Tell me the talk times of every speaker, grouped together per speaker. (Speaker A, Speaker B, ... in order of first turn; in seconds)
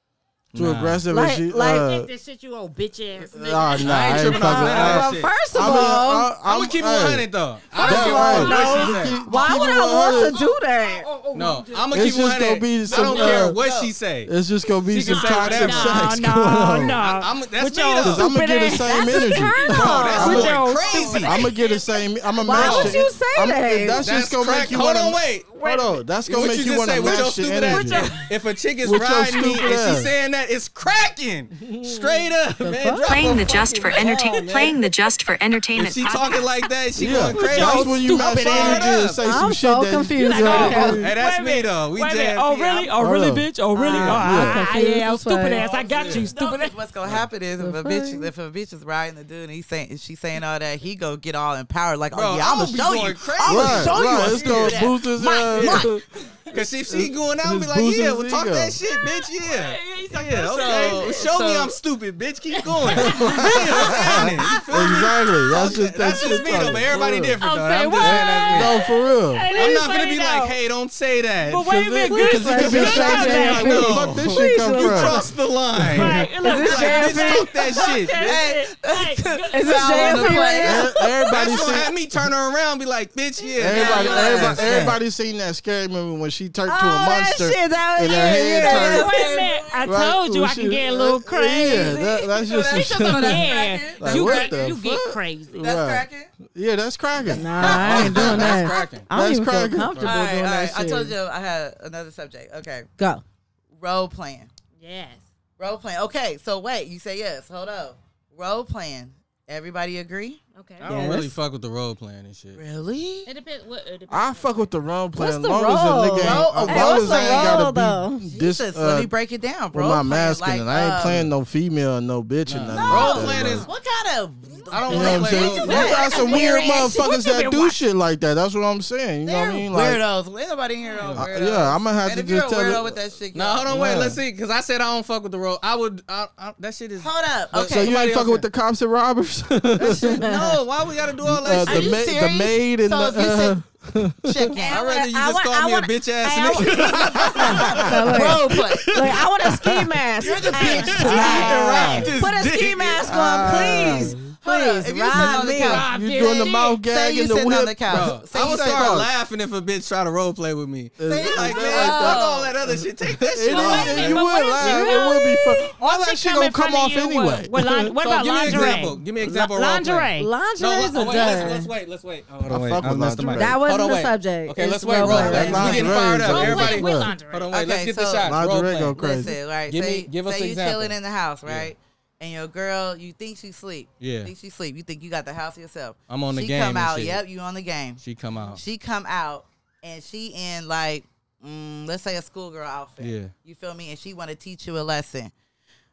Speaker A: 0.5-1.0, 3.8-5.3, 6.5-9.2, 11.3-14.3, 14.9-16.1, 16.9-18.2, 19.7-21.4, 22.5-23.0, 24.0-25.6, 26.2-34.8, 35.8-39.2, 40.4-42.9, 45.9-46.3, 52.1-54.8, 56.5-68.8, 69.5-71.6, 72.5-78.4, 81.3-84.9, 97.6-99.1, 110.8-112.6, 122.5-123.7, 124.7-126.0, 131.0-131.3, 133.3-138.4, 139.8-142.0, 144.7-149.8, 150.3-152.9, 157.9-164.2, 168.0-179.0, 179.7-181.7, 184.0-184.3, 186.1-187.2, 188.0-188.6, 193.0-193.3
Speaker B: 0.5-2.1, 3.3-7.3, 7.8-10.3, 11.9-13.6, 14.3-17.0, 18.0-20.6, 21.2-28.1, 28.8-30.1, 31.6-32.2, 37.0-41.2, 43.0-44.6, 53.4-56.0, 56.9-58.8, 62.9-67.4, 68.0-69.5, 71.5-75.3, 80.6-82.0, 83.6-89.3, 89.8-100.1, 114.1-119.1, 119.7-123.7, 124.9-130.0, 131.1-133.0, 133.7-134.2, 137.6-140.2, 141.2-144.5, 147.2-148.1, 151.0-152.1, 153.0-154.3, 155.2-159.1, 161.0-162.3, 163.2-168.0, 168.5-168.8, 172.5-173.6, 175.0-177.1, 178.2-179.3
Speaker C: 1.1-1.9, 4.3-6.3, 7.8-11.1, 18.2-20.5, 22.4-24.1, 32.6-33.1, 39.2-41.0, 43.8-45.7, 47.6-48.3, 72.1-75.2, 76.4-77.5, 79.5-81.1, 86.7-89.5, 91.6-92.3, 97.3-101.2, 103.0-103.2, 110.8-111.3, 115.2-118.2, 140.0-140.4, 144.6-155.8, 164.6-165.0, 170.2-171.7, 173.3-175.9
Speaker D: 1.8-4.5, 7.8-12.2, 15.1-21.8, 25.5-25.9, 27.6-28.3, 36.0-39.0, 40.2-46.8, 59.0-61.3, 62.5-64.7, 67.4-70.6, 71.5-73.9, 75.9-80.8, 88.6-92.0, 92.8-95.7, 104.8-105.2, 110.5-110.9, 113.3-114.7, 125.6-127.8, 155.6-156.8, 163.4-170.3, 170.9-171.4, 175.6-177.5
Speaker E: 12.9-13.9, 20.9-21.3, 45.6-56.0, 60.3-61.8, 76.5-77.2, 78.0-80.8, 83.6-85.0, 89.0-89.9, 92.4-94.7, 95.5-96.3, 97.6-98.7, 100.0-102.9, 103.8-104.5, 105.6-110.4, 112.6-113.3, 116.2-117.7, 118.3-121.3, 122.8-126.9, 129.2-133.7, 137.0-137.9, 141.7-143.6, 144.3-144.8, 147.1-149.2, 150.2-159.0, 161.1-162.8, 177.5-178.3, 178.9-188.0, 188.6-195.3
Speaker F: 33.0-36.4